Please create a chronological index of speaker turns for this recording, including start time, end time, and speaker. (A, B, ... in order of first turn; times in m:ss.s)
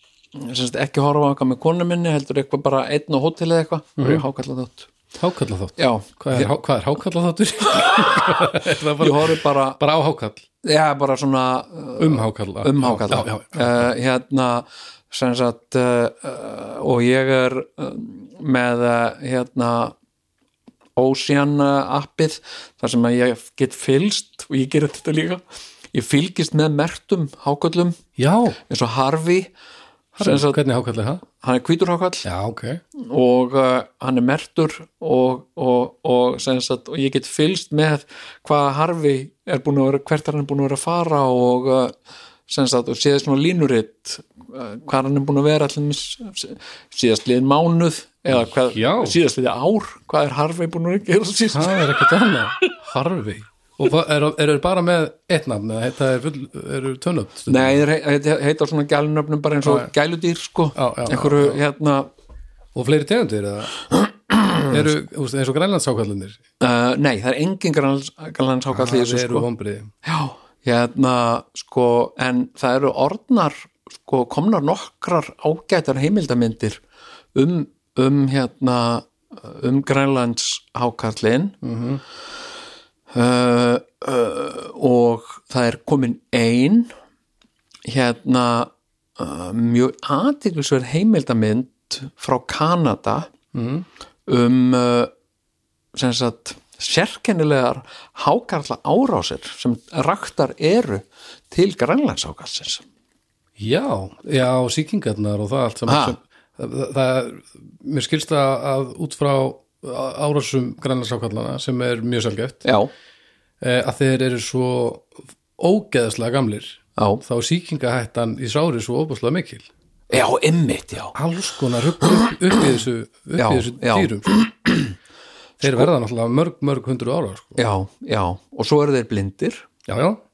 0:00.3-0:04.9 A
0:04.0-0:04.2 B
0:05.2-0:10.4 B
0:05.8-0:06.5 A
0:09.0-0:09.8 A
0:10.6-0:20.0 A
0:12.0-0:13.9 B
0:21.0-0:25.4 A
0:25.9-0:28.0 A
0:28.2-0:28.6 B
0:28.7-0:29.5 A
0:30.1-0:30.6 A
0:30.2-0:31.2 B
0:31.4-0:32.3 A
0:32.2-0:32.8 B
0:32.9-0:41.9 A
0:42.5-0:52.0 A
0:48.4-0:49.2 B
0:51.5-0:57.8 B
0:57.5-1:02.1 A
0:59.6-0:59.9 B
1:00.7-1:01.6 B
1:02.7-1:03.8 B
1:04.0-1:04.8 A
1:04.7-1:06.4 B
1:06.6-1:09.5 A
1:08.7-1:09.9 B
1:10.0-1:16.8 A
1:17.3-1:21.6 A
1:21.6-1:22.0 B
1:23.1-1:26.9 A
1:27.8-1:33.3 A
1:33.5-1:33.8 B
1:34.3-1:35.1 A
1:35.9-1:42.8 A
1:43.6-1:52.6 B
1:45.8-1:46.2 A
1:52.6-1:52.9 A
1:53.6-1:59.7 B
1:57.0-1:57.2 A
2:00.1-2:01.2 A
2:01.1-2:04.3 B
2:03.4-2:04.9 A
2:05.6-2:07.6 B
2:07.6-2:09.7 A
2:09.9-2:10.2 B